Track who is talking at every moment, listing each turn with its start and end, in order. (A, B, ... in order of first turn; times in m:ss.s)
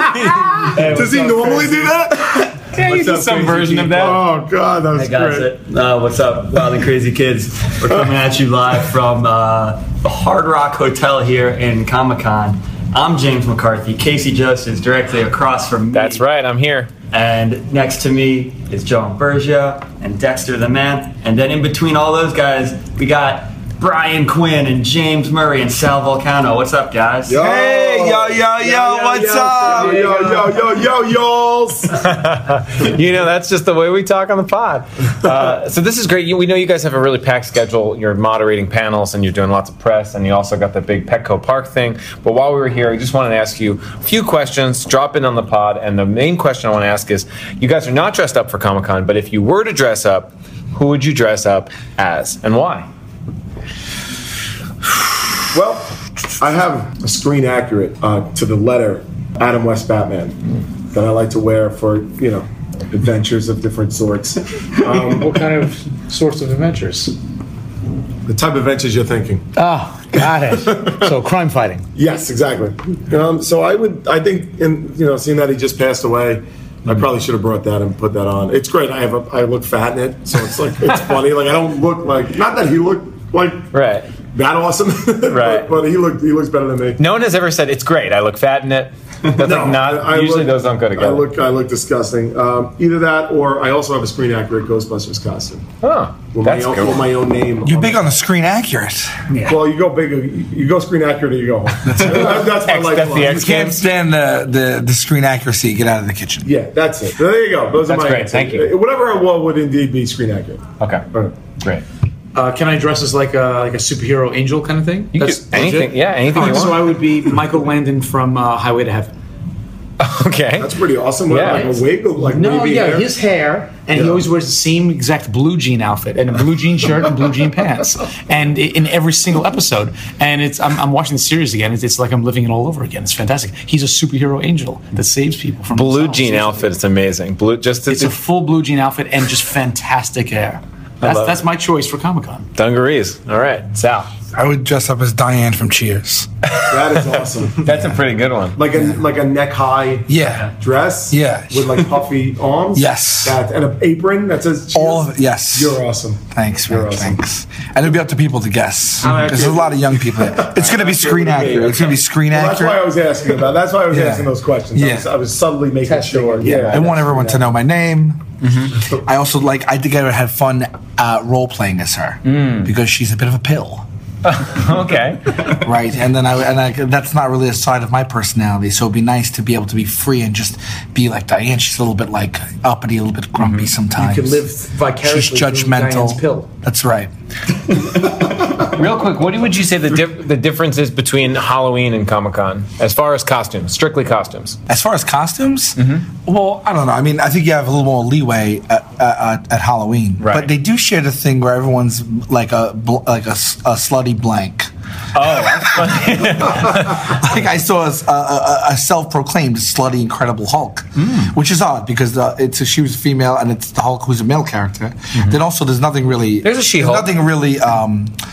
0:00.6-0:01.0 A
0:00.7-0:01.9 B
0:00.7-0:05.5 C
0:02.7-0:04.2 D
0:04.9-0:16.2 A
0:15.9-0:16.9 D
0:17.1-0:27.4 A
0:27.2-0:31.9 C
0:27.4-0:30.0 E
0:28.7-0:30.0 A
0:30.0-0:30.4 B
0:31.9-0:52.9 D
0:55.5-1:00.4 C
1:00.9-1:05.3 C
1:04.8-1:07.2 B
1:08.2-1:09.4 C
1:09.6-1:11.9 B
1:10.6-1:11.1 C
1:11.9-1:23.7 C
1:23.7-1:24.1 D
1:24.3-1:27.0 C
1:25.3-1:25.7 D
1:27.0-1:31.2 D
1:29.3-1:35.6 C
1:35.8-1:37.0 D
1:36.3-1:38.0 C
1:37.6-1:39.1 E
1:39.3-1:39.6 B
1:39.4-1:43.7 C
1:41.8-1:42.4 E
1:42.6-1:43.8 D
1:43.3-1:46.5 E
1:46.4-1:50.6 C
1:47.8-1:48.7 D
1:50.8-1:51.1 D
1:52.3-1:59.1 B
1:55.1-1:57.0 D
2:00.0-2:00.7 D
2:00.6-2:03.1 C
2:01.3-2:01.7 D
2:01.4-2:16.7 B
2:03.9-2:04.2 C
2:15.7-2:18.1 D
2:17.9-2:22.5 B
2:21.0-2:21.4 D
2:22.5-2:24.1 D
2:24.3-2:26.3 E
2:26.7-2:27.7 C
2:27.5-2:28.6 D
2:28.5-2:37.2 C
2:30.1-2:30.5 E
2:31.1-2:31.9 E
2:32.7-2:33.4 E
2:34.7-2:42.8 E
2:39.0-2:39.6 B
2:39.1-2:47.2 C
2:43.9-2:45.1 E
2:45.8-2:47.4 B
2:46.7-2:53.8 E
2:52.3-2:52.7 D
2:54.2-2:55.5 D
2:55.4-3:04.4 E
3:04.0-3:06.5 B
3:05.0-3:07.1 E
3:08.6-3:14.6 D
3:14.7-3:24.7 E
3:15.8-3:16.0 D
3:20.2-3:20.5 D
3:25.1-3:27.3 D
3:25.2-3:38.2 E
3:31.0-3:31.3 D
3:36.4-3:37.1 D